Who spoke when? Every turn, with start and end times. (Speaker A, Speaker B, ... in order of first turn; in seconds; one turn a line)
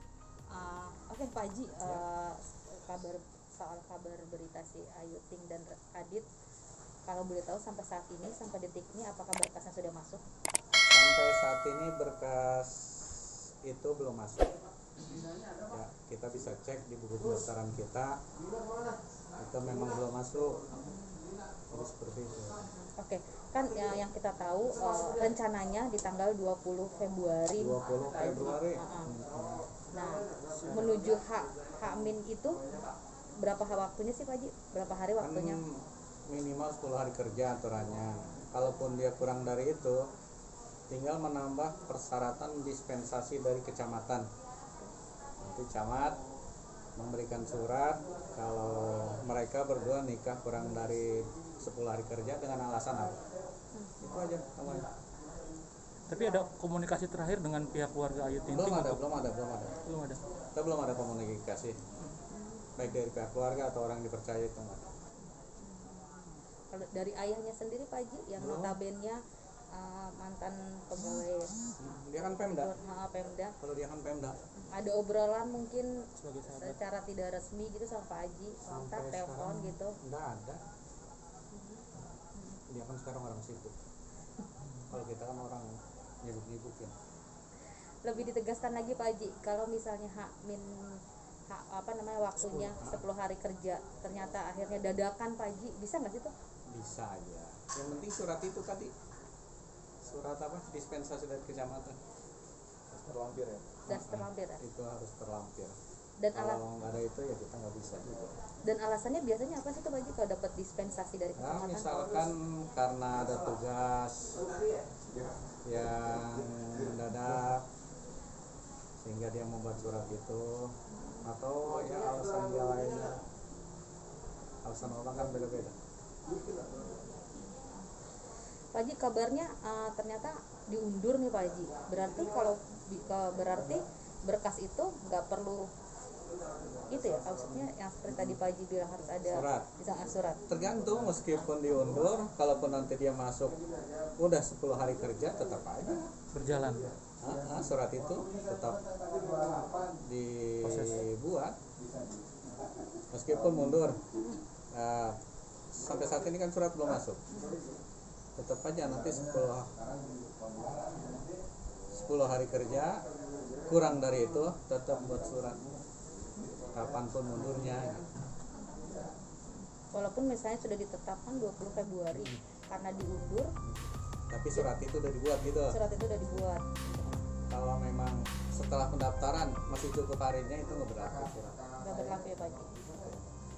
Speaker A: 0.5-6.3
Speaker A: 7.0-10.2
Speaker B: 10.9-14.6
Speaker B: 15.6-18.2
Speaker B: 19.4-20.7
Speaker B: 21.7-22.6
Speaker A: 22.9-29.1
Speaker B: 27.6-29.6
Speaker A: 29.9-35.6
Speaker C: 30.6-31.1
Speaker B: 35.2-40.1
Speaker B: 40.9-44.3
Speaker B: 45.4-46.2
Speaker B: 47.0-53.2
Speaker B: 54.0-54.9
Speaker C: 56.1-59.0
Speaker B: 58.5-59.8
Speaker C: 59.8-60.2
Speaker B: 60.5-61.8
Speaker A: 62.3-62.7
Speaker B: 62.8-64.9
Speaker A: 65.6-69.2
Speaker B: 68.4-68.8
Speaker A: 69.7-71.5
Speaker B: 71.8-72.7
Speaker A: 72.4-73.5
Speaker B: 73.6-74.4
Speaker A: 74.6-80.0
Speaker C: 76.2-76.8
Speaker B: 78.7-80.6
Speaker A: 81.5-81.8
Speaker A: 82.3-82.6
Speaker B: 82.7-83.7
Speaker B: 84.9-85.7
Speaker B: 86.2-86.9
Speaker A: 88.0-96.3
Speaker C: 92.4-92.8
Speaker B: 92.8-93.0
Speaker B: 96.7-98.9
Speaker B: 100.0-102.0
Speaker B: 102.9-105.7
Speaker A: 103.9-104.6
Speaker A: 106.2-106.6
Speaker B: 106.3-108.3
Speaker A: 108.6-112.0
Speaker B: 111.4-114.4
Speaker B: 115.6-117.7
Speaker B: 119.0-123.2
Speaker A: 120.9-121.2
Speaker B: 124.6-125.7
Speaker A: 126.7-127.3
Speaker A: 128.7-135.7
Speaker A: 136.9-140.4
Speaker B: 139.2-139.7
Speaker B: 140.5-143.6
Speaker B: 144.2-146.1
Speaker C: 146.3-146.9
Speaker B: 147.2-148.9
Speaker B: 149.7-151.6
Speaker C: 150.6-151.0
Speaker B: 153.1-154.0
Speaker B: 154.7-155.2
Speaker B: 155.7-157.2
Speaker A: 157.3-157.6
Speaker B: 158.3-159.8
Speaker B: 161.9-163.0
Speaker B: 163.6-165.7
Speaker B: 166.7-168.0
Speaker A: 169.9-173.5
Speaker B: 174.3-175.8
Speaker A: 175.7-177.2
Speaker B: 177.5-181.6
Speaker A: 181.8-182.7